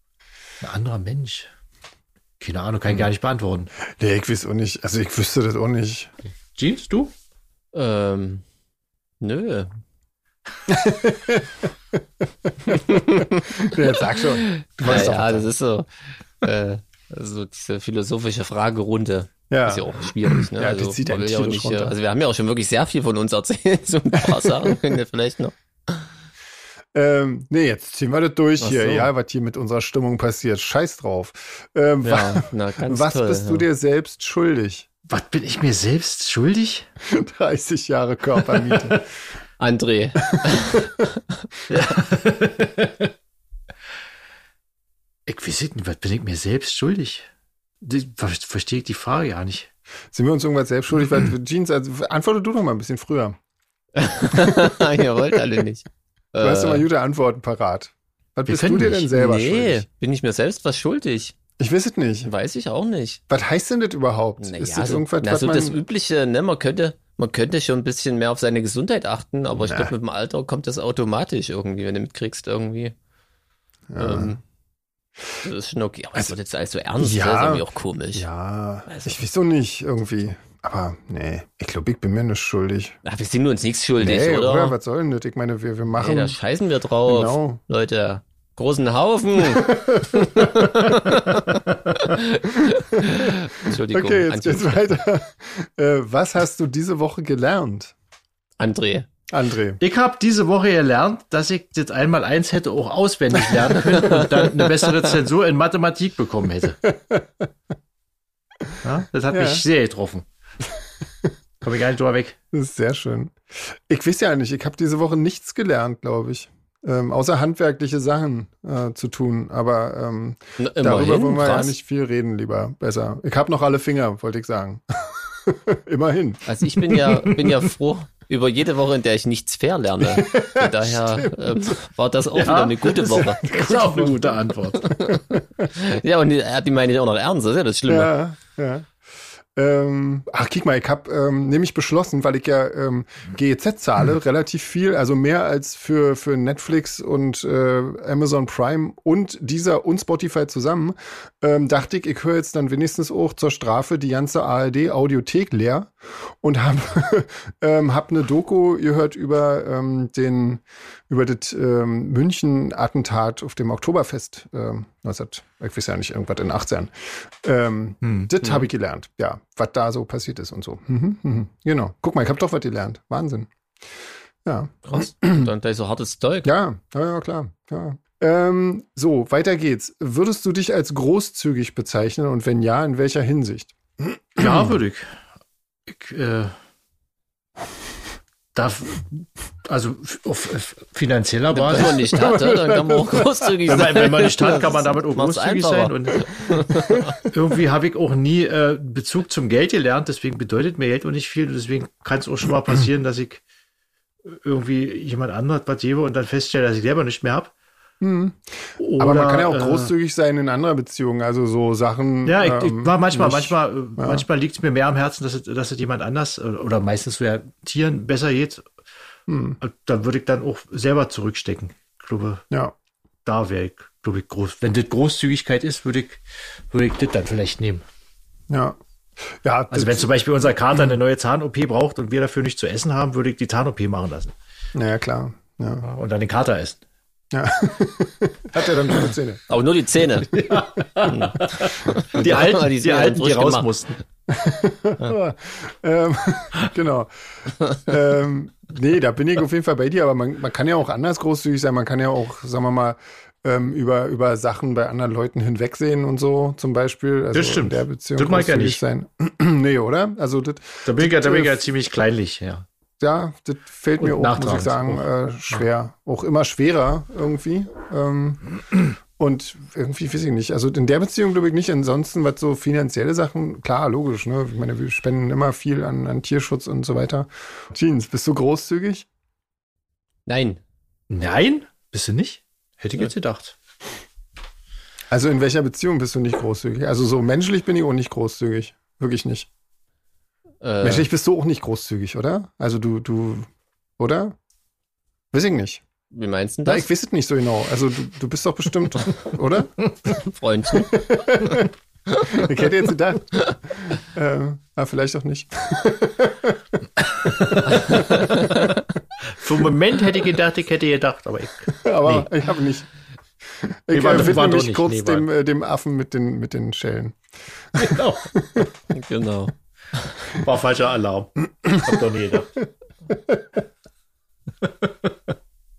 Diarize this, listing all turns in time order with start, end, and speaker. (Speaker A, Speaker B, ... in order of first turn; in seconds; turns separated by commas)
Speaker A: 0.6-1.5, Speaker A: 2.4-3.7, Speaker B: 4.0-6.1, Speaker A: 6.5-7.1, Speaker C: 7.7-8.4, Speaker C: 9.2-9.7, Speaker B: 10.7-11.7, Speaker B: 12.4-15.5, Speaker C: 12.8-15.9, Speaker C: 16.4-26.0, Speaker B: 19.5-21.9, Speaker B: 24.3-24.7, Speaker B: 26.9-34.9, Speaker C: 28.6-29.1, Speaker C: 32.0-33.6, Speaker A: 35.1-36.9, Speaker B: 37.0-39.0, Speaker A: 38.5-39.0, Speaker C: 39.6-41.4, Speaker B: 40.3-40.8, Speaker A: 41.7-43.1, Speaker A: 45.3-47.3, Speaker A: 47.8-49.7, Speaker B: 50.1-53.4, Speaker C: 54.0-56.9, Speaker B: 56.4-59.9, Speaker A: 58.5-59.1, Speaker C: 59.1-61.3, Speaker B: 61.6-62.3, Speaker C: 62.2-63.2, Speaker B: 63.3-65.8, Speaker C: 64.4-72.9, Speaker B: 69.6-69.9, Speaker B: 73.9-74.3, Speaker C: 74.0-74.4, Speaker C: 75.4-78.2, Speaker B: 77.0-83.0, Speaker C: 78.9-79.2, Speaker C: 83.0-84.7, Speaker B: 84.0-86.4, Speaker C: 86.0-94.9, Speaker B: 87.0-87.6, Speaker B: 90.1-90.5, Speaker B: 92.7-97.9, Speaker C: 98.6-99.1, Speaker B: 99.3-99.8, Speaker A: 99.8-106.8, Speaker C: 103.9-104.2, Speaker B: 106.8-107.5, Speaker A: 108.8-110.2, Speaker B: 109.3-109.6, Speaker A: 111.6-112.4, Speaker B: 112.5-127.6, Speaker C: 120.6-121.7, Speaker C: 126.5-133.4, Speaker B: 130.0-131.8, Speaker A: 132.3-134.9, Speaker B: 133.2-134.4, Speaker C: 134.7-135.2, Speaker B: 135.0-135.7, Speaker C: 135.7-138.1, Speaker B: 137.9-138.9, Speaker B: 139.6-173.5, Speaker A: 168.0-168.3, Speaker B: 174.4-175.5, Speaker C: 174.8-176.5, Speaker B: 176.4-184.8, Speaker A: 184.4-185.2, Speaker A: 185.9-186.5, Speaker A: 188.5-192.1, Speaker C: 191.5-197.1, Speaker B: 191.8-194.3, Speaker A: 193.7-196.4, Speaker B: 196.7-197.2, Speaker A: 197.2-203.4, Speaker A: 204.2-207.5, Speaker B: 208.0-214.2, Speaker A: 208.8-209.9, Speaker A: 212.2-218.7, Speaker B: 219.3-219.6, Speaker A: 219.6-222.4, Speaker A: 223.2-227.8, Speaker B: 228.5-230.1, Speaker A: 229.7-234.3, Speaker B: 234.7-235.9, Speaker A: 235.8-236.8, Speaker B: 237.3-239.4, Speaker A: 238.6-239.1, Speaker C: 239.5-240.3, Speaker A: 240.3-243.9, Speaker C: 241.1-243.7, Speaker B: 244.3-261.6, Speaker A: 257.3-258.8, Speaker A: 260.9-262.6, Speaker B: 263.0-268.5, Speaker A: 264.0-265.0, Speaker B: 269.2-279.1, Speaker C: 280.3-280.6, Speaker A: 281.1-283.5, Speaker B: 285.1-289.5, Speaker C: 290.6-291.1, Speaker B: 290.8-294.3, Speaker B: 295.3-295.8, Speaker C: 296.1-296.9, Speaker B: 296.6-300.1, Speaker C: 300.2-301.0, Speaker B: 300.7-308.8, Speaker C: 302.1-302.4, Speaker C: 307.7-308.8, Speaker A: 309.3-312.3, Speaker B: 311.8-312.9, Speaker B: 313.6-318.7, Speaker A: 313.9-315.2, Speaker A: 317.8-318.3, Speaker C: 318.9-319.5, Speaker A: 320.3-322.6, Speaker A: 324.6-325.3